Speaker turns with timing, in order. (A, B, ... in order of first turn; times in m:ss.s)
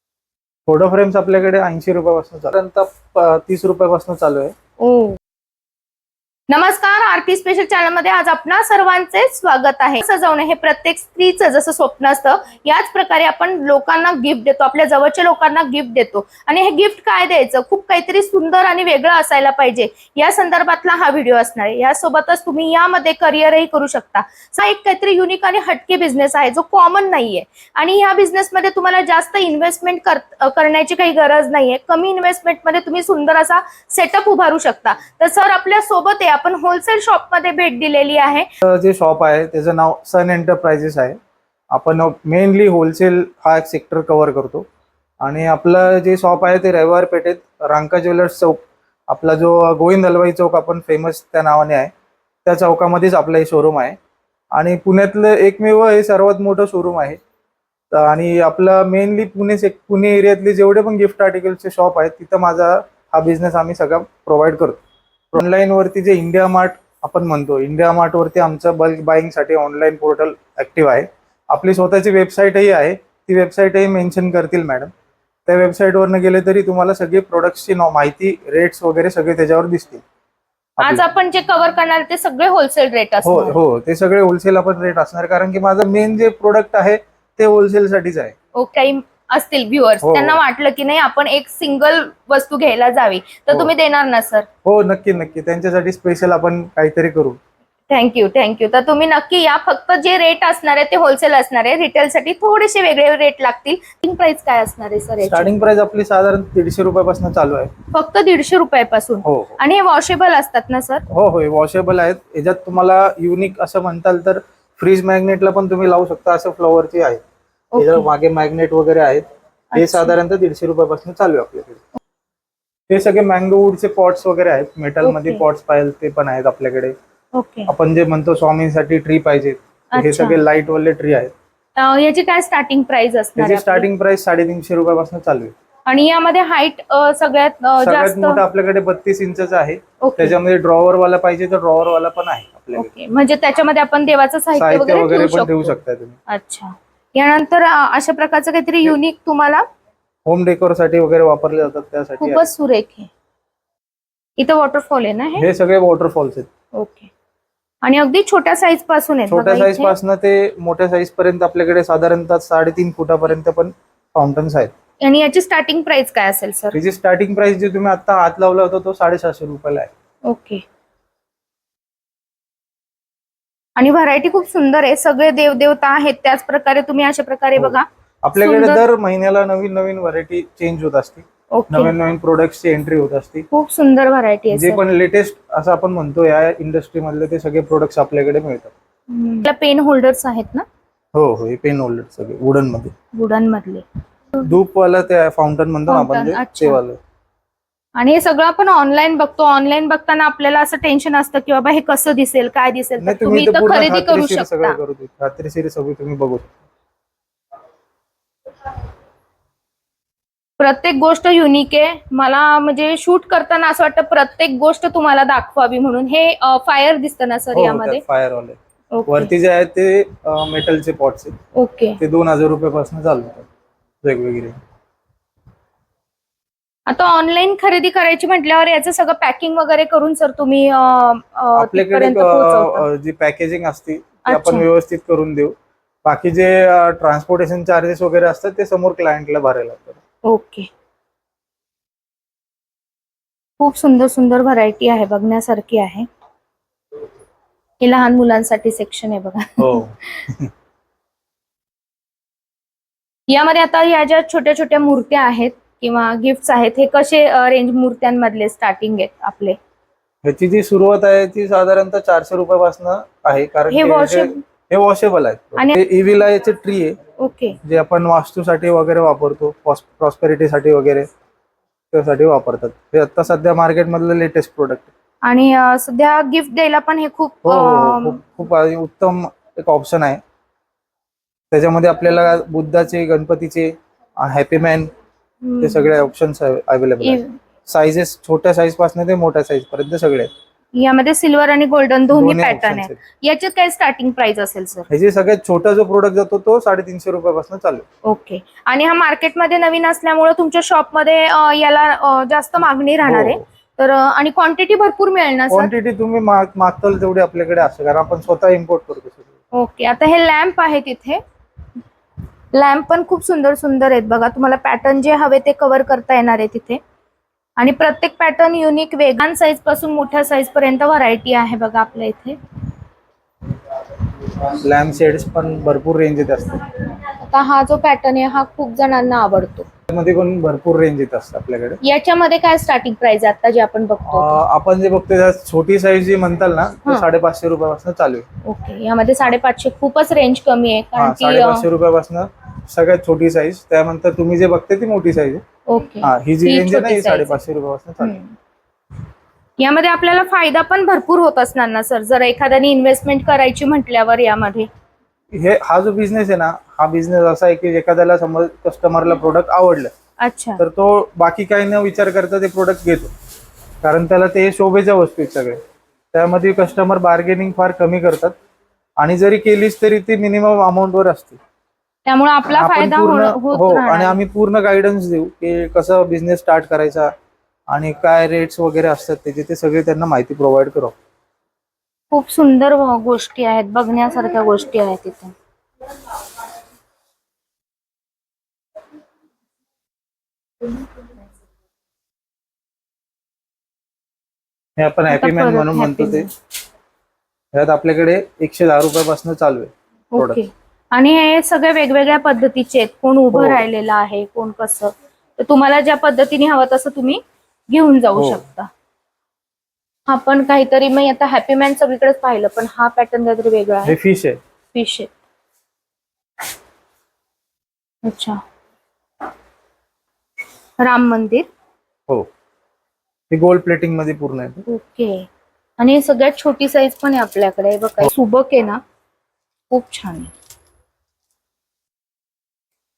0:00.7-0:04.5 A
0:04.8-0:05.2 B
0:06.5-0:38.5 B
0:38.6-0:41.2 A
0:41.7-0:44.7 A
0:45.2-0:51.9 A
0:52.4-0:54.0 A
0:54.5-0:57.2 A
0:57.9-1:04.8 A
1:05.3-1:14.9 A
1:15.4-1:20.0 A
1:20.8-1:21.0 A
1:20.8-1:23.6 B
1:23.2-1:28.3 A
1:28.5-1:34.5 B
1:30.0-1:30.4 A
1:34.6-1:37.4 A
1:37.9-1:45.5 B
1:45.2-1:47.7 A
1:47.9-1:51.0 B
1:49.2-1:49.6 A
1:51.1-1:57.2 A
1:57.7-1:58.1 B
1:57.8-2:01.8 A
1:59.7-2:00.1 B
2:02.9-2:06.9 A
2:05.0-2:05.4 B
2:07.3-2:07.7 B
2:07.7-2:11.3 A
2:09.9-2:10.4 B
2:11.8-2:13.9 B
2:13.4-2:15.6 A
2:15.9-2:18.4 B
2:17.8-2:22.9 A
2:20.0-2:20.4 B
2:22.7-2:25.7 B
2:24.5-2:26.2 A
2:26.3-2:29.6 B
2:30.2-2:32.4 A
2:32.2-2:33.1 B
2:34.4-2:35.5 B
2:35.4-2:36.5 A
2:36.7-2:37.1 B
2:37.8-2:39.9 B
2:39.3-2:44.7 A
2:45.0-2:46.8 B
2:46.7-2:49.9 A
2:50.2-2:50.6 B
2:53.8-2:58.8 B
2:57.6-3:03.5 A
3:01.5-3:01.9 B
3:03.5-3:04.8 B
3:04.5-3:08.7 A
3:09.1-3:10.6 B
3:11.1-3:12.9 A
3:13.1-3:14.5 B
3:14.4-3:17.0 A
3:15.9-3:16.8 B
3:18.0-3:24.8 B
3:23.0-3:26.6 A
3:30.6-3:38.0 B
3:37.5-3:41.3 A
3:38.9-3:39.3 B
3:41.5-3:42.0 B
3:42.0-3:43.5 A
3:44.0-3:44.6 A
3:46.9-3:52.9 B
3:51.5-4:00.0 A
3:54.2-3:54.6 B
4:00.2-4:00.7 B
4:03.6-4:06.1 B
4:07.8-4:10.2 B
4:09.6-4:10.5 A
4:13.3-4:19.6 B
4:20.2-4:27.0 A
4:23.7-4:24.4 B
4:27.2-4:27.6 B
4:27.6-4:31.1 A
4:31.9-4:34.9 A
4:35.2-4:38.2 B
4:37.4-4:40.2 A
4:41.5-4:44.9 A
4:45.4-4:45.9 B
4:45.6-4:50.3 A
4:47.0-4:47.3 B
4:50.7-4:54.9 B
4:52.1-4:53.0 A
4:54.9-4:57.8 A
4:58.0-5:05.7 B
5:03.0-5:03.4 A
5:05.5-5:09.3 A
5:09.5-5:11.2 B
5:12.5-5:16.8 B
5:17.6-5:22.4 B
5:24.4-5:26.6 A
5:27.2-5:29.7 B
5:29.9-5:31.8 A
5:31.8-5:34.4 B
5:34.1-5:38.2 A
5:38.4-5:41.6 B
5:41.0-5:45.4 A
5:45.7-5:47.4 B
5:46.0-5:48.2 A
5:48.0-5:48.3 B
5:49.6-5:54.7 B
5:55.3-5:59.9 A
6:00.2-6:00.6 B
6:00.6-6:03.1 A
6:03.8-6:05.6 A
6:06.1-6:08.4 A
6:09.0-6:11.4 A
6:12.0-6:14.2 B
6:12.5-6:17.1 A
6:17.7-6:21.0 A
6:22.1-6:25.3 B
6:34.8-6:36.3 A
6:35.1-6:36.3 B
6:37.5-6:40.4 A
6:40.1-6:48.7 B
6:43.3-6:43.6 A
6:48.1-6:48.4 A
6:50.1-6:54.0 B
6:53.8-6:54.4 A
6:54.7-6:55.1 B
6:58.0-6:58.4 B
7:00.8-7:01.5 B
7:03.3-7:04.6 A
7:04.7-7:08.8 B
7:09.7-7:10.3 B